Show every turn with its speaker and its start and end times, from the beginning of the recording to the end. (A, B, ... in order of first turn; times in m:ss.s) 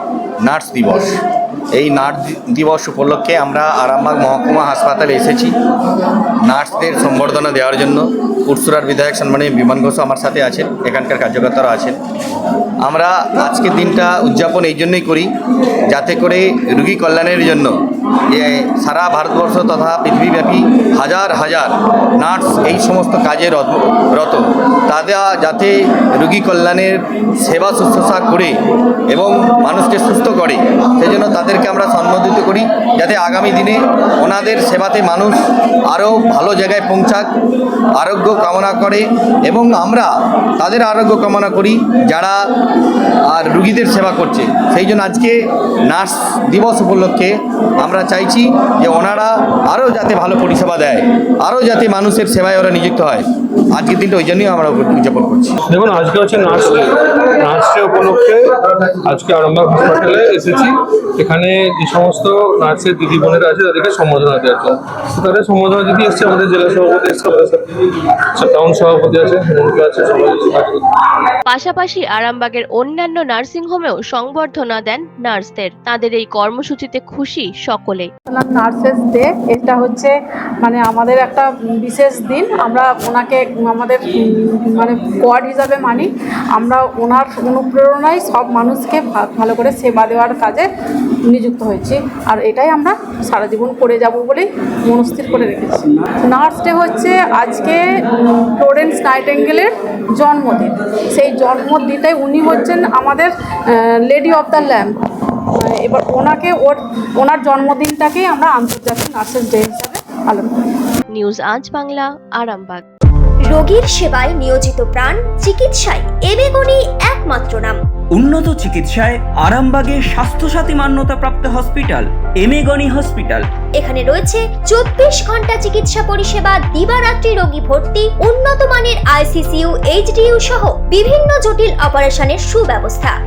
0:00.4-0:01.1 A
0:01.8-0:05.5 A
0:06.5-0:12.0 A
0:12.8-0:15.3 A
0:15.9-0:17.7 A
0:18.3-0:28.5 A
0:29.1-0:37.2 A
0:38.0-0:42.4 A
0:43.3-0:45.4 A
0:45.9-0:55.5 A
0:55.7-1:10.9 B
1:11.5-1:18.1 C
1:18.3-1:30.7 D
1:31.3-1:37.8 D
1:38.4-1:44.8 D
1:45.6-1:50.5 D
1:51.1-1:52.8 C
1:53.5-1:57.8 E
1:58.1-2:03.4 F
2:03.8-2:13.1 E